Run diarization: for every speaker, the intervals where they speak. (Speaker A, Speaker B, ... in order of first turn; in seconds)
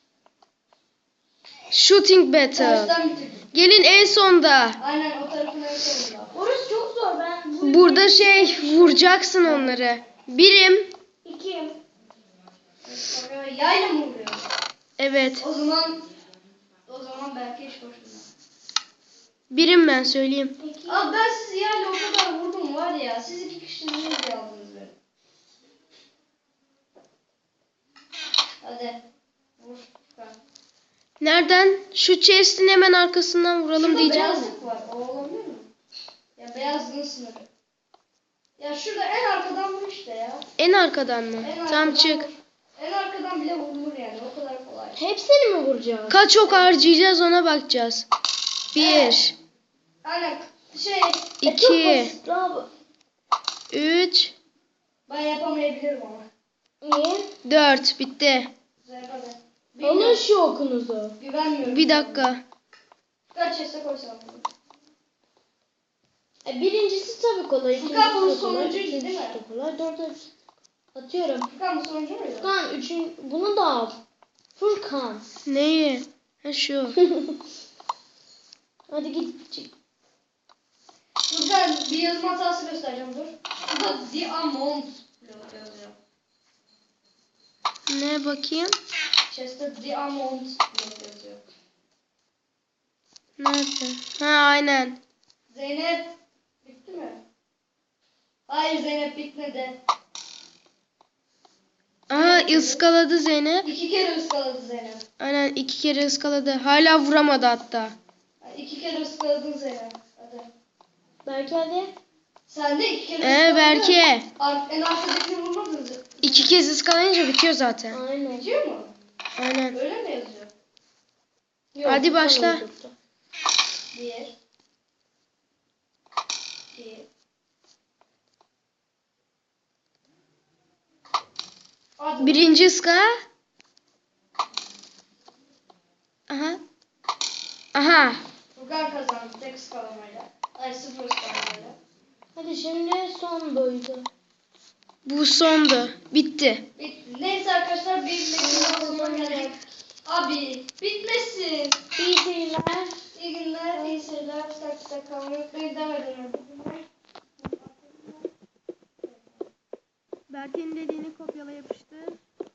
Speaker A: 1.7-2.9, 3.5-4.8, 7.6-10.9, 15.0-15.4, 19.5-20.6, 31.2-34.5, 40.6-42.3, 46.1-48.0, 48.7-49.3, 51.4-52.1, 53.7-54.3, 57.4-58.5, 61.6-62.4, 75.5-77.0, 87.9-88.8, 93.4-95.0, 102.1-103.7, 105.2-108.0, 113.2-114.3, 116.2-118.0, 119.4-119.8, 121.8-122.6, 132.2-133.1, 136.3-136.6, 137.7-138.2, 145.0-146.7, 160.3-162.2
Speaker B: 2.5-3.5, 4.8-6.3, 9.4-9.8, 12.8-14.5, 15.4-16.0, 16.9-18.2, 20.9-24.9, 28.6-29.0, 29.6-30.4, 33.8-35.7, 36.4-37.5, 38.6-40.5, 41.4-45.0, 46.5-46.7, 48.7-49.2, 50.0-51.3, 55.1-56.2, 58.8-60.3, 61.2-62.4, 63.3-64.5, 67.7-69.4, 71.5-72.5, 81.3-86.0, 89.3-91.4, 95.5-96.1, 96.6-97.2, 98.5-99.8, 102.1-102.8, 103.6-105.0, 108.4-110.5, 112.5-116.5, 118.3-118.9, 119.7-120.5, 123.9-124.3, 126.7-127.0, 132.0-132.4, 138.5-141.8, 146.8-151.8, 153.1-156.8, 157.4-158.3, 159.0-159.5
Speaker C: 6.3-9.1, 11.2-11.8, 20.6-21.1, 44.9-46.2, 51.4-52.7, 56.8-57.3, 59.8-61.1, 66.4-70.2, 70.9-71.5, 72.4-74.0, 74.6-75.2, 76.9-77.3, 78.9-79.7, 111.2-111.9, 117.9-118.5, 121.8-122.9, 142.3-144.1, 148.4-149.6, 151.9-152.9, 153.7-154.3